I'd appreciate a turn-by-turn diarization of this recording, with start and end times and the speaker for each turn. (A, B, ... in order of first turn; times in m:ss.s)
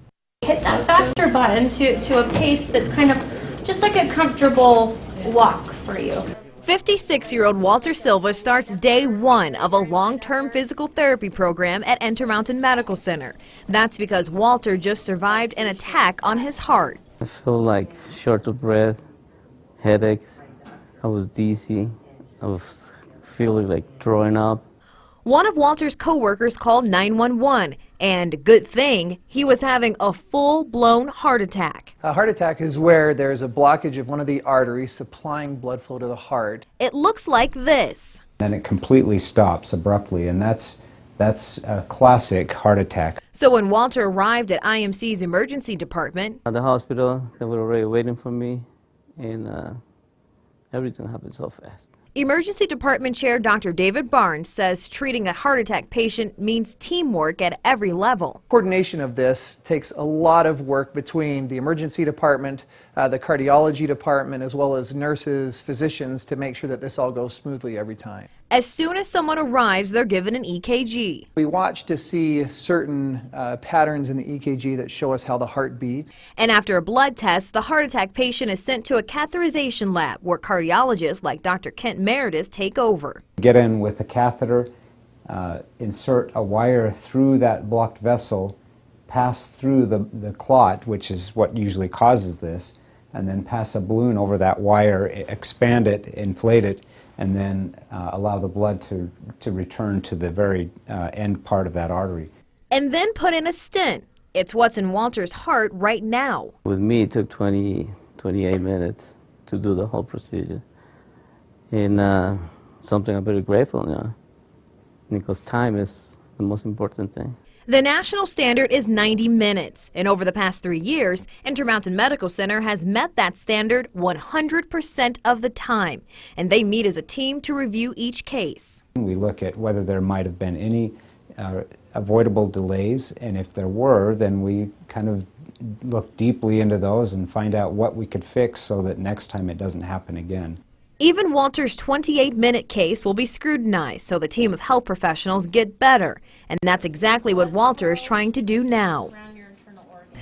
0:00.4-0:06.2 A
0:06.6-0:17.0 B
0:17.2-0:19.0 C
0:19.8-0:20.3 C
0:21.0-0:24.6 C
0:25.2-0:31.9 B
0:32.0-0:36.6 D
0:36.8-0:38.2 B
0:38.4-0:43.2 E
0:43.3-0:46.4 B
0:46.5-0:48.6 C
0:49.2-0:49.8 C
0:50.7-0:51.8 C
0:52.1-0:58.4 B
0:58.5-1:08.3 D
1:08.5-1:11.2 B
1:11.4-1:16.1 D
1:16.4-1:23.2 B
1:23.4-1:24.7 E
1:25.3-1:28.6 E
1:29.1-1:42.3 E
1:42.7-1:46.5 B
1:46.6-1:50.6 C
1:51.7-1:54.1 C
1:55.1-1:57.4 C
1:57.7-2:08.8 B
2:09.0-2:20.6 E
2:21.0-2:29.1 B
2:29.2-2:30.0 A